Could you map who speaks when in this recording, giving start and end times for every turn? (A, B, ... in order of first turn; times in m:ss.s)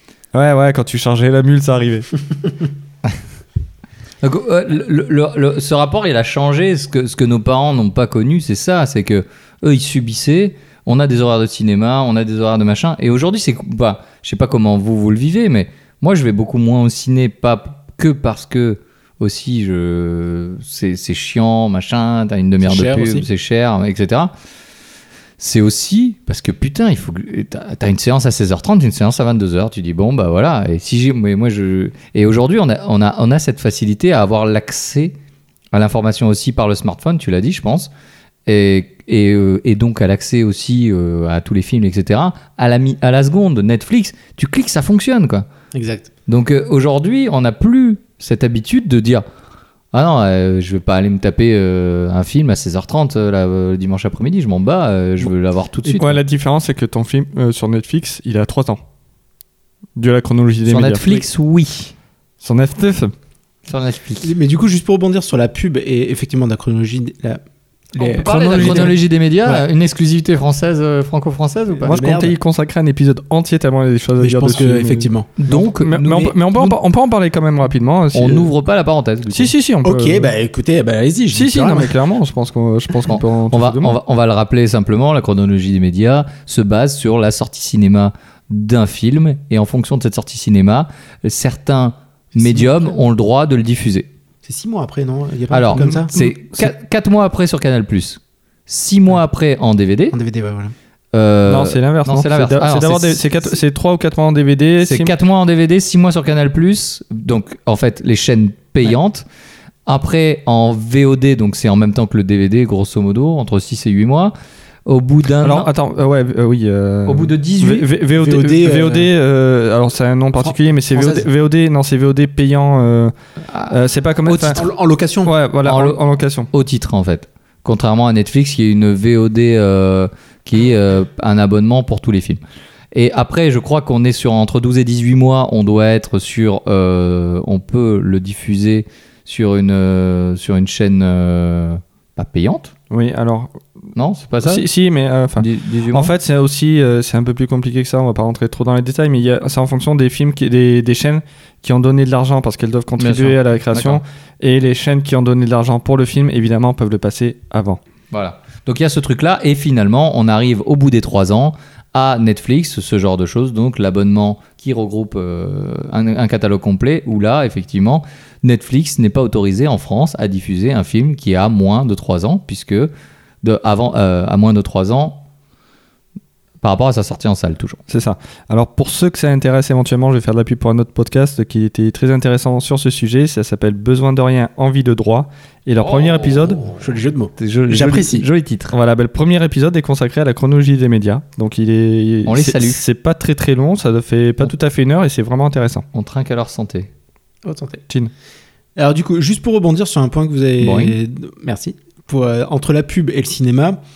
0:00.3-0:02.1 A
0:04.2-0:24.3 B
0:22.6-0:23.3 C
0:25.4-0:35.2 B
0:35.7-0:37.9 B
0:38.4-0:45.5 B
0:45.7-0:46.1 C
0:46.3-0:49.2 B
0:49.9-0:56.2 B
0:55.8-0:58.8 A
1:00.0-1:01.0 A
1:00.6-1:01.9 B
1:02.4-1:03.1 A
1:03.7-1:04.3 B
1:04.2-1:09.6 C
1:08.0-1:12.1 B
1:08.2-1:09.0 A
1:11.8-1:12.3 C
1:11.8-1:18.5 A
1:14.2-1:15.3 C
1:15.4-1:16.8 B
1:18.1-1:19.5 B
1:19.3-1:20.3 A
1:19.8-1:21.9 C
1:21.3-1:24.0 A
1:23.1-1:34.1 B
1:32.4-1:32.7 C
1:34.4-1:36.1 C
1:35.5-1:40.2 B
1:40.1-1:40.7 C
1:41.1-1:43.2 B
1:41.4-1:45.1 A
1:44.8-1:49.2 B
1:49.8-1:54.3 B
1:54.8-1:55.7 B
1:55.4-2:03.1 A
1:57.0-1:57.9 B
1:58.1-1:59.1 C
2:00.4-2:01.2 C
2:03.5-2:04.6 B
2:03.7-2:04.6 A
2:04.5-2:05.3 C
2:05.2-2:06.5 A
2:05.6-2:06.0 B
2:06.5-2:12.4 B
2:12.9-2:22.7 B
2:22.9-2:23.6 A
2:24.0-2:24.7 B
2:24.4-2:37.8 A
2:25.4-2:26.1 B
2:33.0-2:34.0 B
2:38.1-2:52.9 B
2:53.4-2:55.2 B
2:56.6-2:57.8 B
2:57.9-3:06.6 A
3:05.8-3:06.8 B
3:06.8-3:08.2 C
3:07.4-3:08.7 B
3:08.7-3:15.8 A
3:12.2-3:12.8 B
3:15.9-3:16.9 B
3:17.4-3:17.8 C
3:18.8-3:23.8 C
3:20.6-3:21.0 B